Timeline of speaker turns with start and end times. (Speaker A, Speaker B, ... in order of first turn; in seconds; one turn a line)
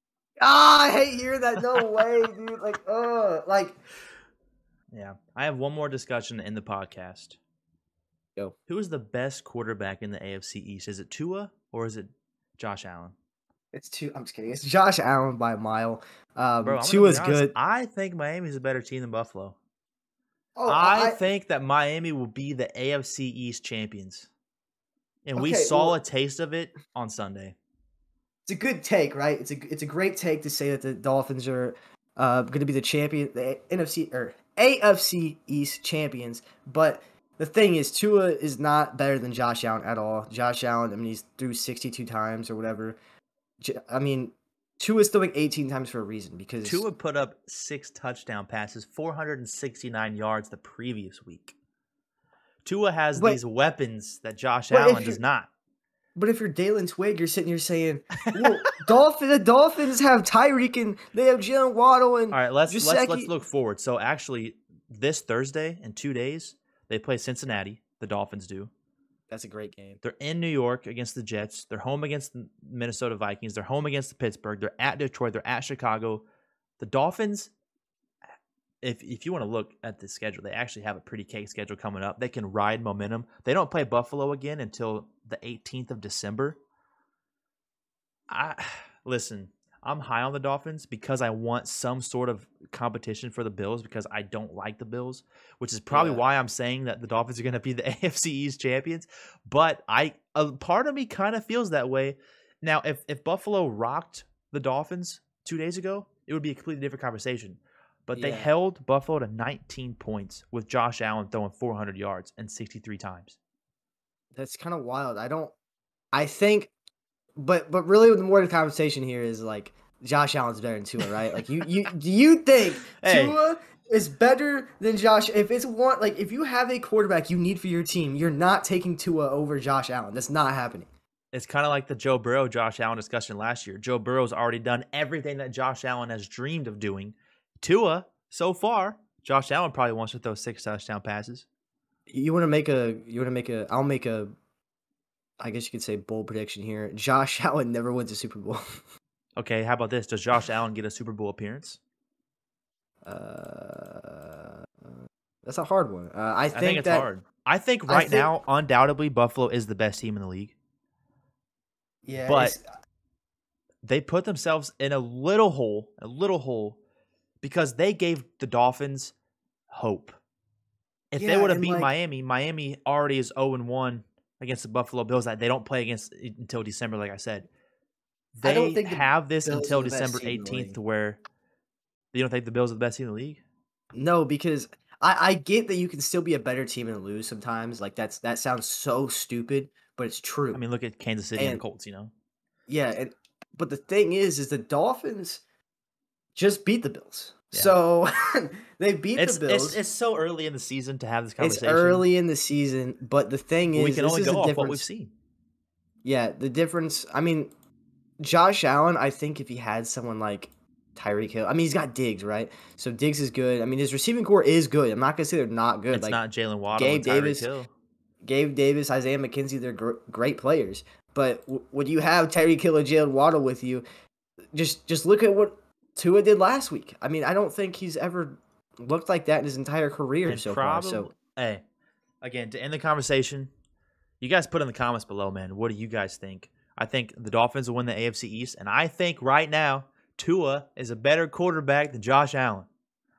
Speaker A: 0.4-3.8
Speaker B: 4.9-7.4
Speaker B: 8.7-13.2
Speaker A: 13.7-17.5
Speaker B: 16.6-19.6
Speaker A: 20.6-21.2
Speaker B: 20.7-24.3
Speaker B: 25.2-27.6
Speaker A: 25.4-26.0
Speaker A: 28.5-43.0
Speaker A: 43.6-46.8
Speaker B: 46.6-51.6
Speaker B: 52.6-55.5
Speaker A: 54.7-55.2
Speaker A: 56.2-63.3
Speaker B: 62.3-68.7
Speaker A: 69.3-70.0
Speaker B: 70.0-76.2
Speaker B: 76.8-77.5
Speaker B: 78.8-86.6
Speaker B: 88.3-113.4
Speaker A: 95.9-96.2
Speaker A: 108.1-108.5
Speaker A: 114.3-115.5
Speaker A: 116.1-116.7
Speaker A: 117.4-130.9
Speaker B: 123.0-123.4
Speaker B: 131.3-141.5
Speaker A: 142.1-144.3
Speaker A: 145.4-148.6
Speaker B: 149.4-151.8
Speaker A: 153.1-157.1
Speaker B: 156.5-160.6
Speaker A: 157.9-158.3
Speaker A: 162.1-162.6
Speaker B: 162.3-162.6
Speaker B: 163.8-166.8
Speaker B: 167.4-169.1
Speaker B: 169.7-170.2
Speaker B: 171.1-177.5
Speaker A: 171.2-171.9
Speaker B: 178.3-181.2
Speaker A: 178.4-180.8
Speaker B: 182.1-183.4
Speaker A: 183.9-190.6
Speaker B: 190.5-192.1
Speaker A: 191.4-191.6
Speaker A: 192.7-195.4
Speaker A: 196.3-199.8
Speaker B: 199.2-202.1
Speaker A: 201.4-204.8
Speaker B: 203.7-205.1
Speaker A: 206.0-207.5
Speaker A: 208.2-216.2
Speaker B: 215.9-217.7
Speaker A: 216.7-217.5
Speaker A: 218.2-223.8
Speaker A: 224.5-231.1
Speaker B: 230.3-231.6
Speaker B: 232.2-233.5
Speaker B: 234.2-242.7